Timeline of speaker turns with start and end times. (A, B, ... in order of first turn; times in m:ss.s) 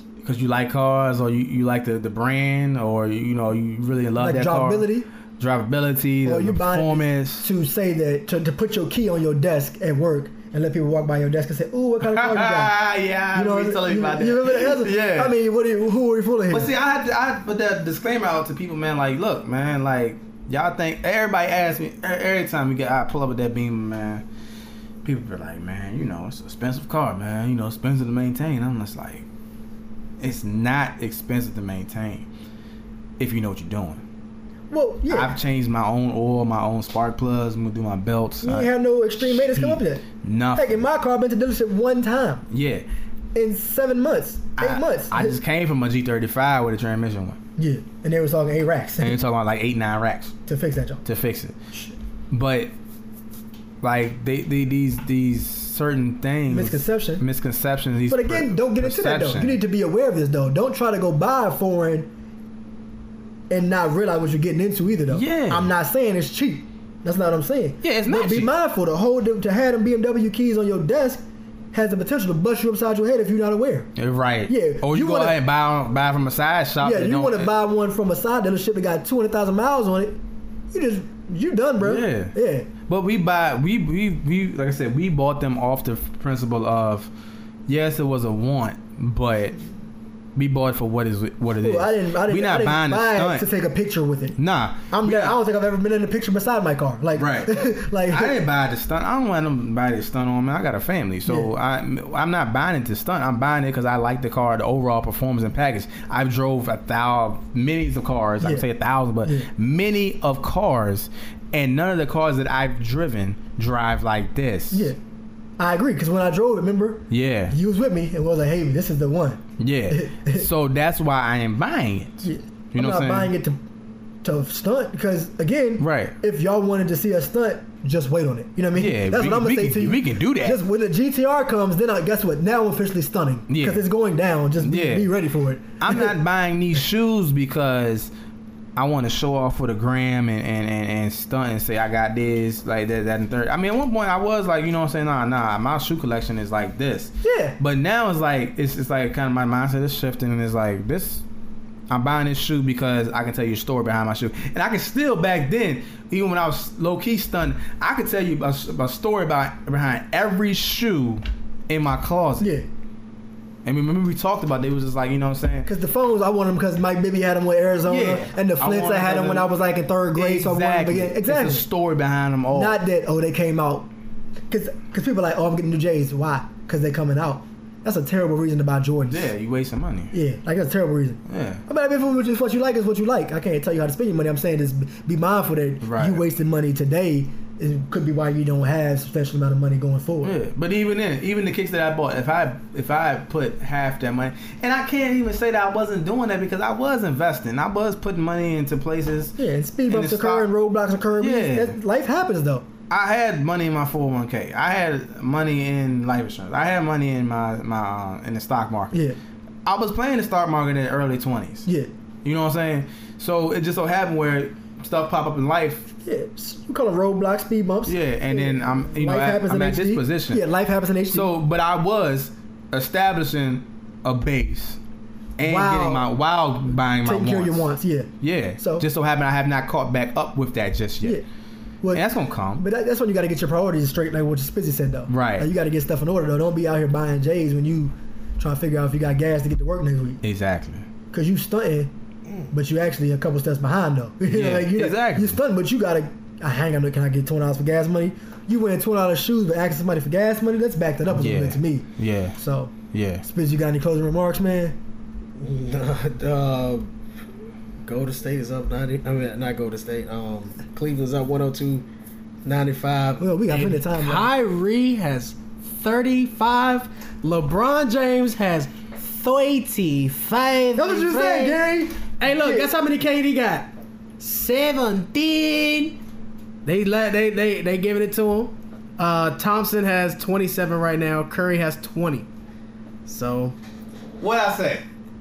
0:00.2-0:07.5 A
0:04.2-0:05.0 B
0:06.2-0:12.7 B
0:12.0-0:15.3 A
0:13.3-0:16.7 B
0:16.5-0:24.2 A
0:25.0-0:29.2 A
0:30.2-0:32.3 A
0:33.2-0:34.0 A
0:34.7-0:35.3 B
0:35.1-0:40.8 A
0:38.4-0:42.4 B
0:42.5-0:42.8 A
0:43.3-0:45.4 B
0:44.6-0:47.4 A
0:47.6-0:49.2 B
0:49.0-0:50.3 A
0:50.5-0:51.0 B
0:51.0-0:51.5 A
0:52.3-0:52.7 A
0:53.8-0:59.6 A
0:56.5-0:57.2 B
0:58.1-1:02.1 B
1:03.5-1:13.9 B
1:05.1-1:05.7 A
1:07.8-1:08.5 A
1:14.0-1:17.5 A
1:14.5-1:15.4 B
1:16.8-1:20.2 B
1:20.7-1:22.7 B
1:21.8-1:22.3 A
1:22.9-1:27.1 A
1:27.7-1:29.6 A
1:30.4-1:33.5 A
1:31.6-1:34.4 B
1:34.4-1:35.4 A
1:34.9-1:38.4 B
1:37.2-1:54.9 A
1:41.3-1:41.5 B
1:54.7-1:55.0 B
1:55.6-2:00.4 B
1:57.1-1:57.5 A
1:59.6-2:03.3 A
2:02.2-2:03.6 B
2:04.2-2:16.1 B
2:05.8-2:06.2 A
2:08.8-2:10.6 A
2:13.5-2:13.8 A
2:14.6-2:15.1 A
2:15.8-2:18.1 A
2:18.8-2:31.2 A
2:27.2-2:27.6 B
2:31.9-2:42.5 A
2:42.4-2:42.6 B
2:43.6-2:45.7 A
2:45.6-2:51.6 B
2:47.8-2:49.5 A
2:50.1-2:52.7 A
2:52.5-2:53.9 B
2:54.5-2:59.3 B
2:59.1-3:00.1 A
3:00.1-3:10.4 B
3:01.3-3:01.6 A
3:05.8-3:06.2 A
3:10.2-3:20.5 A
3:19.4-3:22.6 B
3:21.2-3:21.8 A
3:22.9-3:29.0 A
3:28.9-3:29.2 B
3:29.6-3:31.7 A
3:32.2-3:35.9 A
3:36.0-3:41.3 B
3:37.8-3:40.4 A
3:41.1-3:44.8 A
3:45.4-3:47.7 A
3:45.4-3:46.1 B
3:47.0-3:48.8 B
3:48.2-3:51.2 A
3:51.8-4:00.2 B
3:51.9-3:52.6 A
3:55.1-3:55.5 A
4:00.2-4:00.8 A
4:01.1-4:01.9 B
4:02.5-4:14.8 B
4:04.3-4:05.4 A
4:11.1-4:12.4 A
4:12.9-4:13.2 A
4:15.4-4:16.9 C
4:17.8-4:21.8 C
4:22.4-4:31.6 C
4:23.2-4:24.3 B
4:30.8-4:32.7 B
4:32.2-4:36.0 C
4:36.6-4:42.3 C
4:43.0-4:43.6 C
4:44.2-4:44.8 A